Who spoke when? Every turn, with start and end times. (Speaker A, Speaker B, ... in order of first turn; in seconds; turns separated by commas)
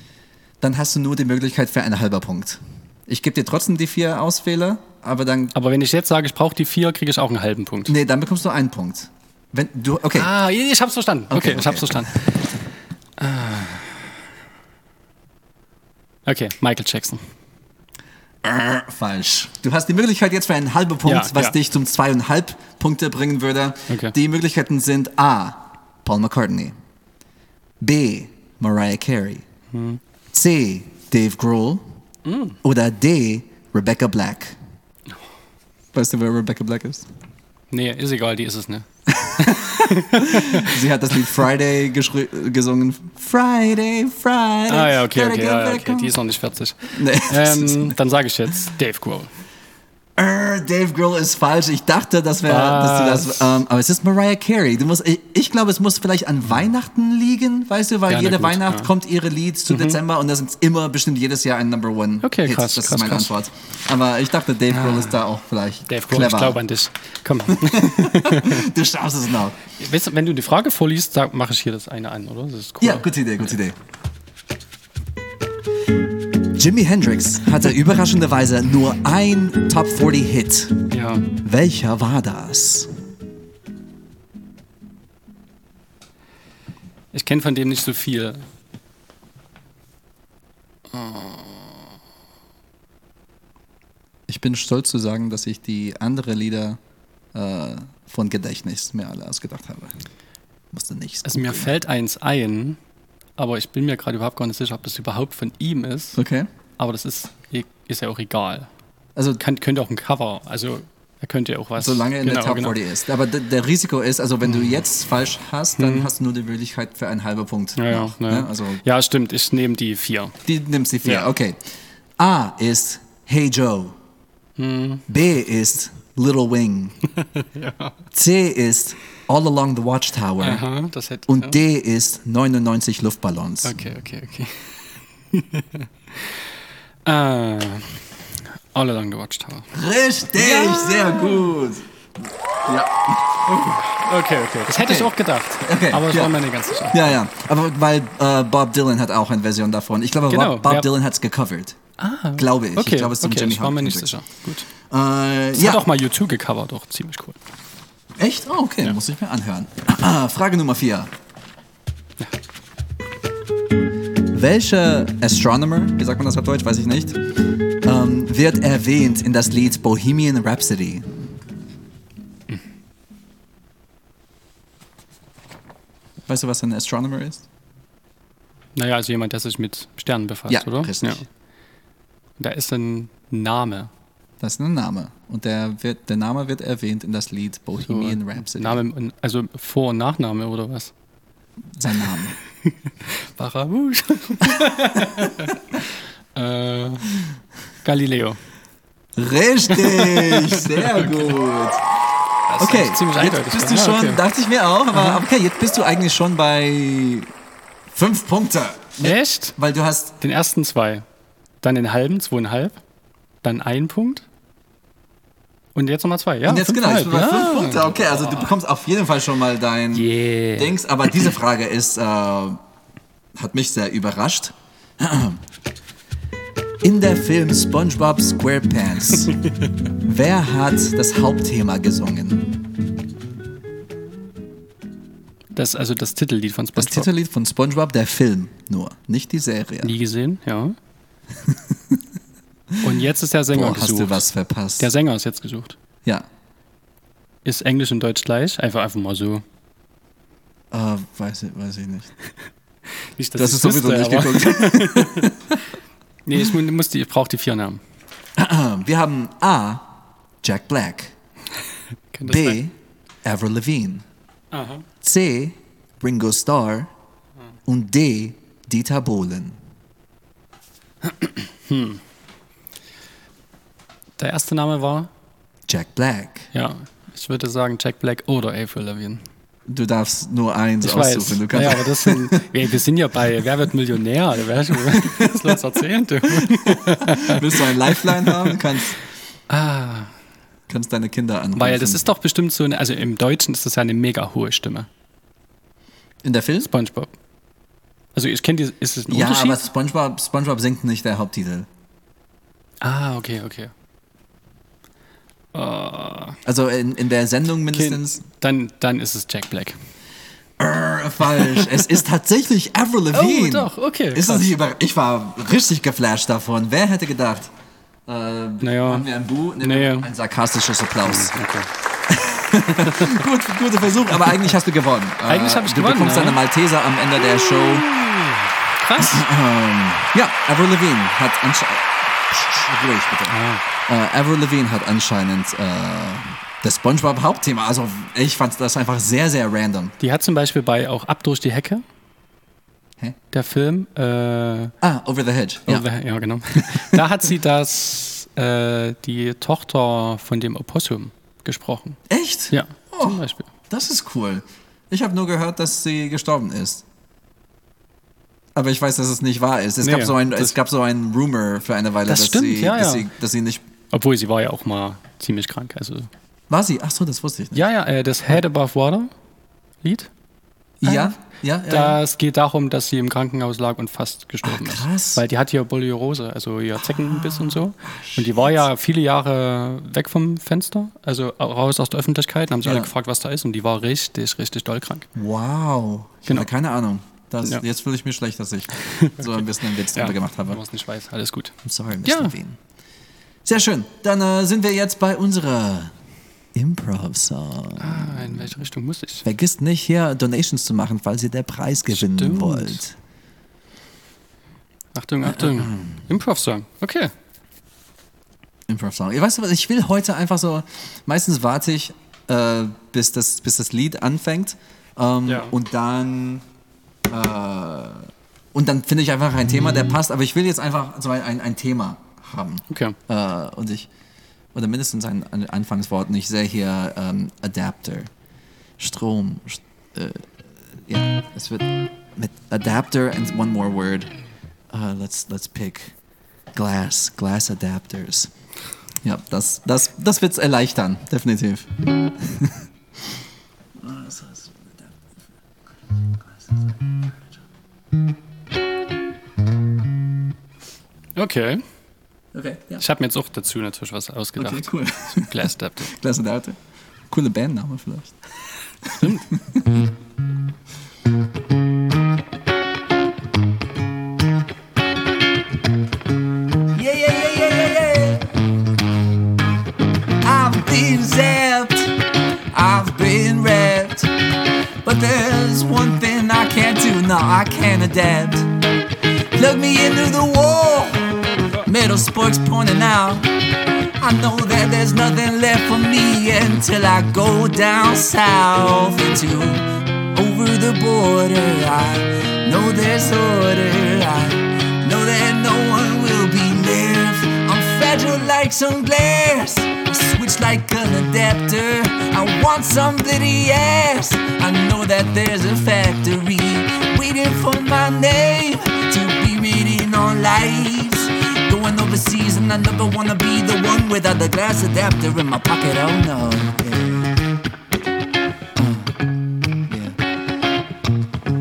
Speaker A: 0.6-5.5, Speaker B: 5.5-8.0, Speaker A: 7.9-10.3, Speaker B: 10.2-12.4, Speaker A: 11.3-12.2, Speaker B: 13.2-14.0, Speaker B: 16.3-17.3, Speaker A: 18.4-26.7, Speaker B: 21.1-21.6, Speaker B: 23.9-24.1, Speaker A: 27.8-29.5, Speaker B: 29.7-30.0, Speaker A: 30.3-31.8, Speaker B: 32.2-32.6, Speaker A: 32.6-34.6, Speaker A: 35.9-37.1, Speaker B: 37.7-40.8, Speaker A: 39.1-46.2, Speaker B: 44.7-49.3, Speaker A: 46.9-48.0, Speaker A: 50.2-66.6, Speaker B: 52.5-53.5, Speaker B: 58.1-58.9, Speaker B: 59.7-60.0, Speaker B: 62.2-63.3, Speaker B: 64.7-65.2, Speaker B: 65.9-68.7, Speaker A: 67.5-69.6, Speaker B: 69.8-73.5, Speaker A: 72.8-73.8, Speaker A: 76.6-80.8, Speaker B: 80.9-81.3, Speaker A: 81.4-82.9, Speaker B: 87.1-88.5, Speaker B: 90.9-91.7, Speaker A: 94.3-96.8, Speaker A: 97.3-99.9, Speaker A: 100.7-101.7, Speaker B: 101.2-102.8, Speaker B: 103.4-106.2, Speaker A: 106.2-106.5, Speaker B: 106.8-108.7, Speaker A: 109.2-109.4, Speaker B: 109.4-112.8, Speaker A: 111.8-118.8, Speaker B: 115.8-116.1, Speaker B: 117.8-120.4, Speaker A: 120.5-121.7, Speaker B: 121.0-121.3, Speaker A: 122.2-124.0, Speaker B: 124.6-125.0, Speaker A: 125.1-127.0, Speaker B: 127.2-128.0, Speaker A: 128.1-130.7, Speaker B: 130.4-131.6, Speaker A: 131.3-133.7, Speaker B: 133.7-136.3, Speaker B: 137.1-138.2, Speaker B: 138.7-139.7, Speaker A: 139.7-141.9, Speaker B: 140.4-141.1, Speaker A: 142.7-143.8, Speaker B: 143.5-147.0, Speaker A: 144.8-146.3, Speaker A: 146.9-151.8, Speaker B: 150.3-150.9, Speaker B: 152.0-154.7, Speaker A: 152.4-154.1, Speaker A: 154.8-155.8, Speaker B: 155.5-157.4, Speaker A: 158.2-161.1, Speaker A: 164.3-167.2, Speaker A: 167.8-171.2, Speaker A: 176.3-177.5, Speaker B: 178.8-181.2, Speaker A: 180.5-181.2, Speaker B: 182.4-183.9, Speaker A: 184.4-188.8, Speaker B: 187.8-190.9, Speaker A: 191.8-192.4, Speaker B: 192.7-197.1, Speaker A: 195.0-195.3, Speaker B: 197.8-198.4, Speaker A: 199.2-201.8, Speaker B: 199.7-201.3, Speaker B: 202.5-204.2, Speaker A: 202.6-207.3, Speaker B: 204.9-205.2, Speaker A: 207.9-210.2, Speaker B: 209.0-209.6, Speaker B: 210.2-211.1, Speaker B: 211.6-212.8, Speaker B: 213.4-214.3, Speaker B: 215.8-217.9, Speaker A: 216.5-222.6, Speaker B: 219.9-221.3, Speaker A: 223.3-225.4, Speaker A: 226.8-229.3, Speaker A: 230.0-232.5, Speaker B: 235.5-237.1, Speaker A: 236.8-239.9, Speaker B: 239.8-240.8, Speaker A: 241.4-242.0, Speaker B: 242.8-244.3, Speaker A: 243.5-244.9, Speaker B: 244.8-245.8, Speaker B: 247.4-249.4, Speaker A: 250.7-252.1, Speaker B: 253.2-255.3, Speaker A: 253.4-255.6, Speaker B: 256.2-257.8, Speaker A: 258.4-259.9, Speaker A: 260.4-261.1, Speaker B: 262.1-262.6, Speaker A: 262.3-264.1, Speaker B: 264.5-264.9, Speaker A: 265.0-266.9, Speaker A: 267.7-269.6, Speaker B: 271.1-272.0, Speaker B: 274.2-275.1, Speaker A: 275.7-276.5, Speaker B: 276.5-279.2, Speaker A: 279.7-282.4, Speaker B: 280.8-288.6, Speaker A: 284.9-285.6, Speaker A: 286.3-289.0, Speaker B: 289.5-290.1, Speaker A: 290.7-292.0, Speaker B: 291.6-294.9, Speaker A: 296.2-296.7, Speaker B: 296.7-297.1, Speaker B: 298.1-299.6, Speaker A: 299.1-301.7, Speaker B: 302.8-303.7, Speaker B: 305.5-306.4, Speaker A: 306.4-308.2, Speaker B: 307.7-309.8, Speaker A: 310.6-317.5, Speaker B: 311.4-311.9, Speaker B: 313.1-314.5, Speaker A: 318.1-321.4, Speaker B: 318.6-319.1, Speaker B: 319.6-320.1, Speaker B: 321.1-321.7, Speaker A: 322.1-327.9, Speaker B: 322.8-323.1, Speaker B: 325.2-326.4, Speaker B: 327.3-329.2, Speaker A: 329.0-333.4, Speaker B: 333.3-333.6, Speaker A: 333.9-339.9, Speaker B: 340.0-341.8, Speaker B: 343.3-344.7, Speaker A: 344.8-345.9, Speaker B: 345.7-352.0, Speaker A: 352.1-356.8, Speaker B: 352.5-353.5, Speaker A: 358.6-363.6, Speaker B: 359.8-360.6, Speaker B: 362.1-363.1, Speaker B: 363.9-366.1, Speaker A: 366.5-367.6, Speaker B: 367.5-369.1, Speaker B: 369.8-370.1, Speaker A: 370.8-372.0, Speaker B: 370.8-371.1, Speaker B: 371.7-385.1, Speaker A: 374.4-375.2, Speaker A: 376.8-378.6, Speaker A: 382.6-382.9, Speaker A: 385.1-390.6, Speaker B: 388.8-389.2, Speaker B: 389.9-392.4, Speaker A: 391.6-392.6, Speaker A: 393.4-395.9, Speaker A: 396.5-398.5, Speaker B: 397.8-399.3, Speaker A: 399.2-403.0, Speaker B: 401.9-402.8, Speaker B: 404.9-407.1, Speaker A: 405.2-406.0, Speaker A: 408.7-416.4, Speaker B: 415.3-415.5, Speaker A: 417.1-423.9, Speaker B: 422.7-423.0, Speaker A: 424.5-428.1, Speaker A: 428.8-430.3, Speaker A: 430.9-434.1, Speaker A: 434.7-436.0, Speaker A: 436.5-438.3, Speaker A: 439.0-442.6, Speaker A: 443.8-444.9, Speaker B: 451.2-451.6, Speaker A: 452.3-452.8, Speaker B: 452.8-455.9, Speaker A: 454.4-458.2, Speaker A: 458.8-459.6, Speaker B: 459.0-459.3, Speaker C: 466.7-468.3, Speaker C: 470.2-471.9, Speaker C: 472.5-474.1, Speaker C: 474.8-478.5, Speaker C: 479.3-483.3, Speaker C: 484.0-517.1